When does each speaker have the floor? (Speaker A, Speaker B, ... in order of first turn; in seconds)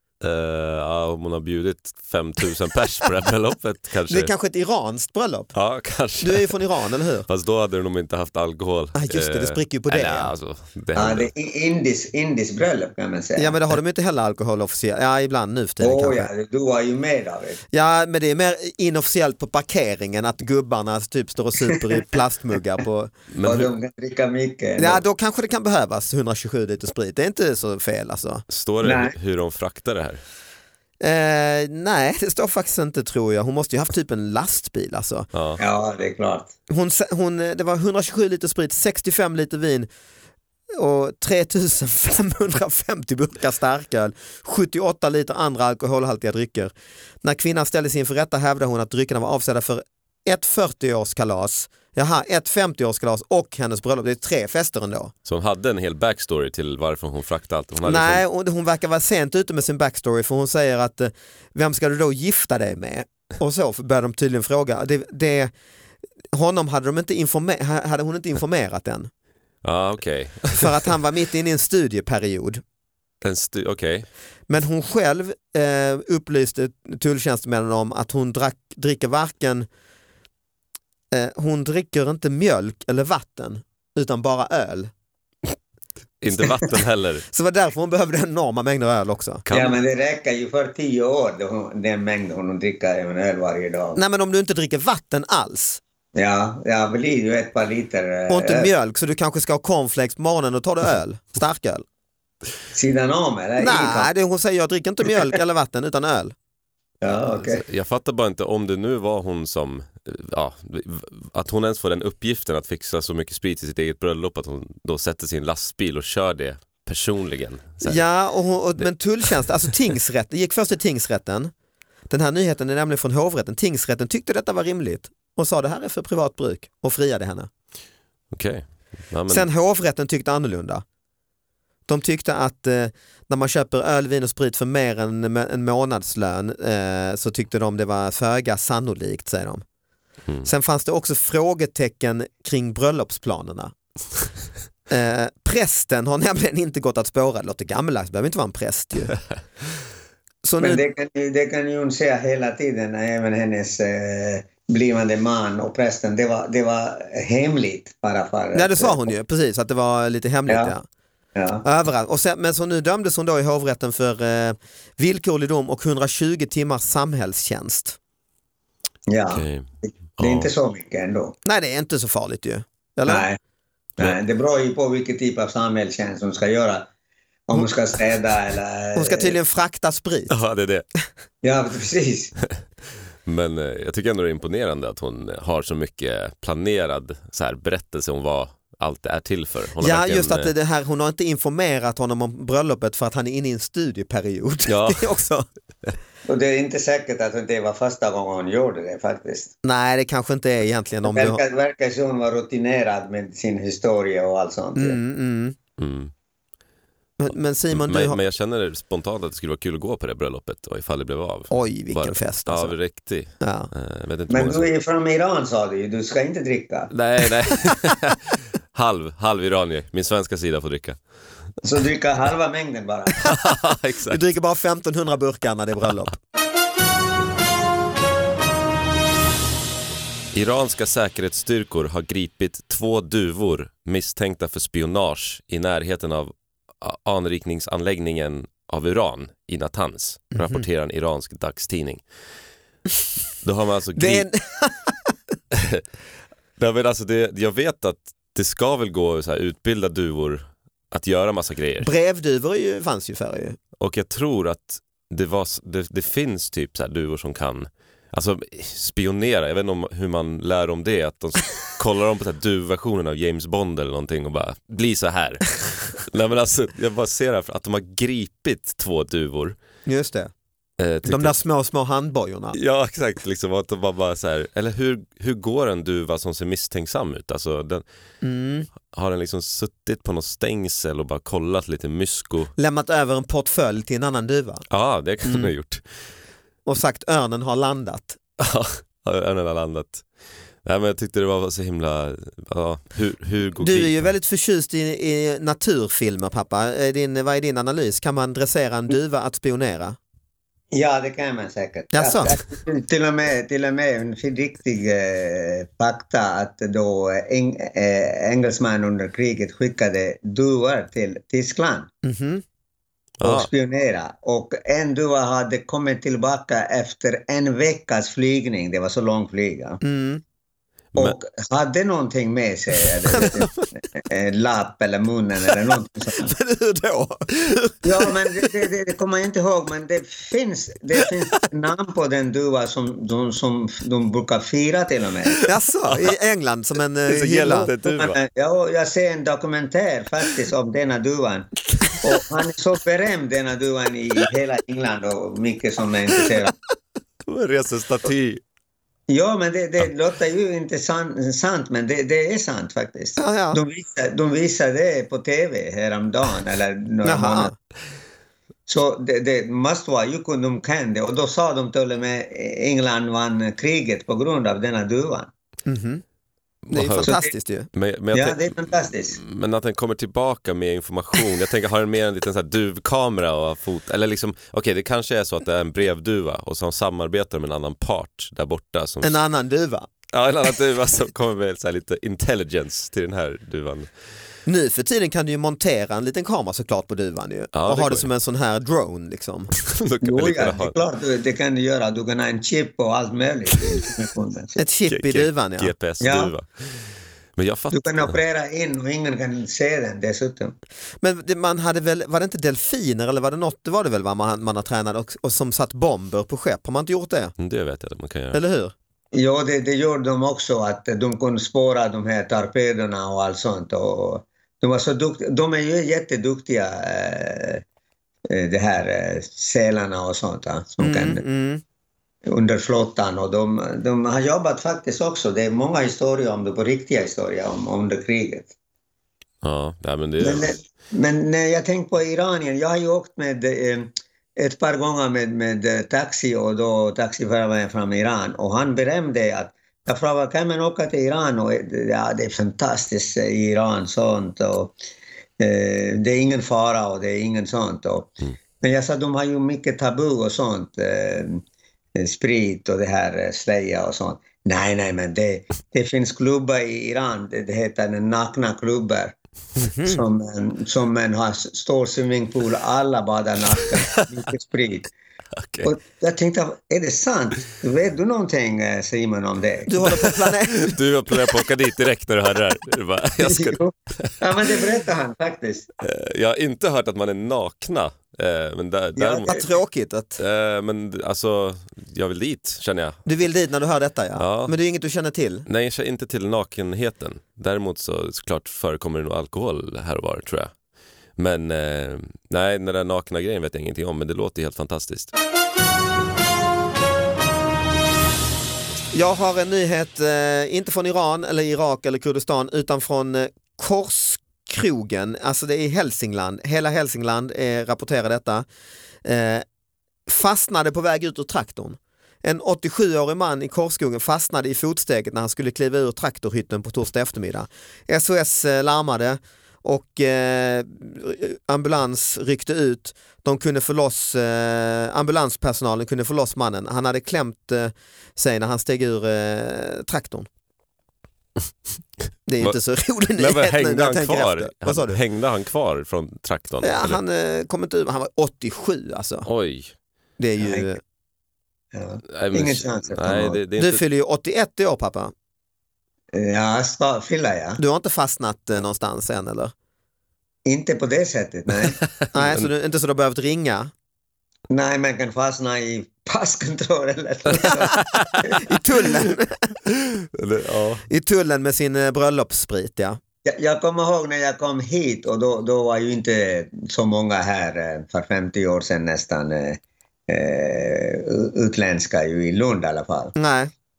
Speaker A: 0.2-4.3, 5.5-6.5, 7.3-11.3, 23.3-23.7, 28.5-30.2, 35.3-35.6, 55.2-58.2, 69.6-70.7, 73.2-74.0, 86.2-87.2, 89.5-89.8, 107.4-118.0, 128.3-129.4, 169.3-169.7, 170.2-170.5, 180.3-180.8, 183.2-190.5, 194.7-195.1, 205.8-206.1, 207.7-214.7, 216.9-221.0, 223.2-224.2, 230.3-242.0, 243.4-244.2, 245.5-245.8, 246.6-251.9, 253.8-269.6, 270.8-271.3, 272.5-277.8, 278.9-282.5, 284.7-285.8, 288.4-290.0, 290.6-294.1, 313.2-313.5, 335.9-336.1, 337.1-338.2, 347.2-348.4, 366.6-367.1, 367.7-379.2, 380.1-383.9, 387.5-388.1, 389.6-390.8, 394.9-396.5, 397.4-398.2, 407.4-408.4, 429.4-430.6, 463.6-464.1, 465.4-465.7, 469.9-474.2, 475.8-479.4, 480.2-483.0, 484.2-484.5, 485.4-490.5, 491.2-495.1, 533.2-537.0, 539.2-539.7, 542.1-543.8, 552.2-552.5, 560.0-560.8
Speaker B: 4.1-5.5, 6.2-7.3, 8.9-10.3, 13.4-16.3, 17.7-23.1, 24.8-28.4, 31.0-35.3, 36.7-39.9, 40.7-46.7, 47.2-55.1, 57.8-65.5, 66.3-69.1, 70.6-72.6, 74.5-79.7, 81.1-84.9, 86.4-86.8, 87.3-89.4, 93.9-95.8, 98.3-101.8, 103.6-106.3, 117.8-121.5, 122.1-127.5, 129.3-130.8, 131.9-139.6, 140.4-143.7, 144.9-149.2, 150.4-150.8, 158.5-160.8, 161.6-168.0, 171.4-173.3, 178.9-180.4, 189.8-195.5, 199.6-201.4, 204.8-205.6, 207.2-208.2, 211.5-212.8, 213.4-213.7, 224.1-226.2, 240.3-240.6, 243.9-245.1, 251.8-253.6, 269.9-270.3, 271.0-272.6, 278.2-278.7, 282.6-284.6, 285.2-285.5, 286.6-288.2, 293.6-300.0, 301.9-302.4, 312.0-312.4, 319.8-320.2, 323.1-323.4, 326.2-328.5, 335.4-337.7, 353.2-353.6, 357.0-357.5, 365.6-366.0, 366.7-367.7, 379.0-379.9, 384.4-389.5, 394.6-395.7, 401.0-407.3, 408.3-408.7, 420.8-421.6, 459.6-460.0, 469.7-470.8, 479.2-480.2, 483.1-485.4, 498.9-508.4, 509.0-509.4, 510.1-530.3, 532.2-535.0, 536.6-539.3, 540.2-540.8, 543.6-545.1, 547.6-549.5, 552.1-553.7, 558.4-559.5, 560.9-563.0, 573.1-573.5
Speaker C: 10.9-13.6, 15.8-17.6, 23.4-25.0, 28.8-29.1, 35.6-36.5, 89.5-94.0, 96.1-98.7, 102.7-104.1, 107.0-107.6, 150.6-159.0, 160.5-160.7, 161.3-161.6, 169.1-171.3, 173.1-173.4, 174.0-176.9, 177.5-179.3, 181.4-182.3, 196.2-199.5, 201.0-205.0, 214.3-216.9, 221.6-223.3, 300.7-311.9, 313.2-319.8, 320.9-326.3, 327.8-335.4, 337.6-346.5, 349.1-357.5, 358.7-365.3, 367.0-367.3, 368.1-369.2, 390.0-394.6, 396.0-396.3, 397.7-400.6, 409.1-417.6, 418.3-421.2, 422.2-428.5, 430.2-444.7, 445.4-451.4, 451.9-459.1, 459.8-464.9, 465.6-470.0, 473.2-475.7, 478.9-479.4, 540.4-540.7, 541.7-543.4, 546.1-547.6, 550.4-551.8, 554.5-558.4, 563.2-573.1